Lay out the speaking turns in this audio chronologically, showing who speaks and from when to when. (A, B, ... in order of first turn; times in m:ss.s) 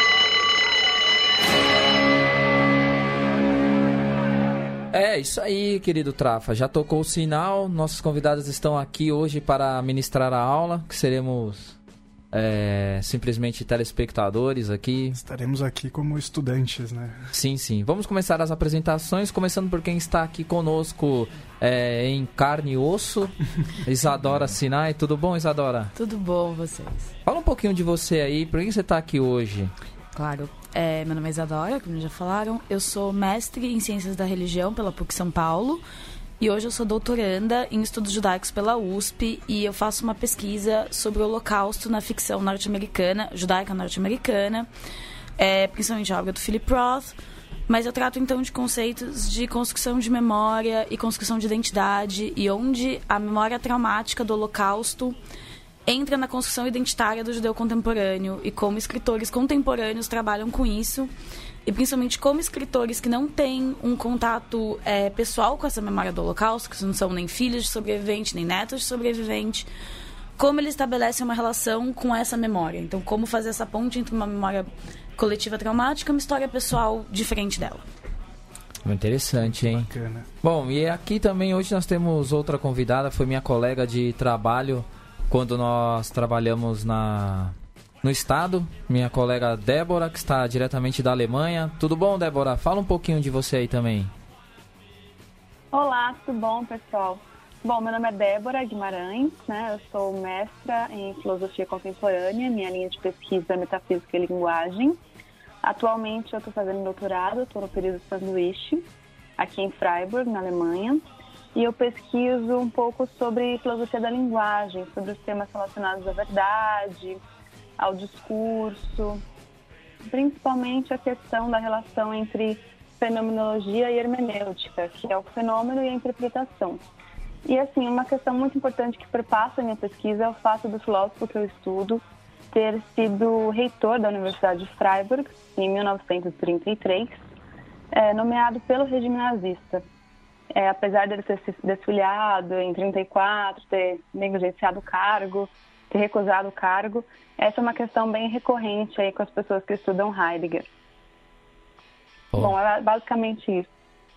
0:04.9-0:11.8 A
0:12.3-0:15.2 A
0:15.1-0:17.3 B
0:17.3-0:25.9 A
0:25.9-0:27.1 C
0:27.2-0:29.7 A
0:30.1-0:35.8 C
0:36.4-0:44.7 C
0:45.4-0:47.2 C
0:47.7-0:55.2 C
0:55.9-1:01.1 C
1:01.6-1:09.7 C
1:10.4-1:17.8 C
1:18.8-1:19.9 A
1:19.5-1:20.3 B
1:20.4-1:34.1 A
1:35.7-1:45.0 D
1:45.6-1:48.8 D
1:49.4-1:51.0 D
1:51.5-1:57.2 D
1:57.8-1:59.2 D
2:00.0-2:06.8 D
2:07.4-2:17.2 D
2:17.9-2:19.8 D
2:20.5-2:30.6 D
2:32.3-2:33.7 D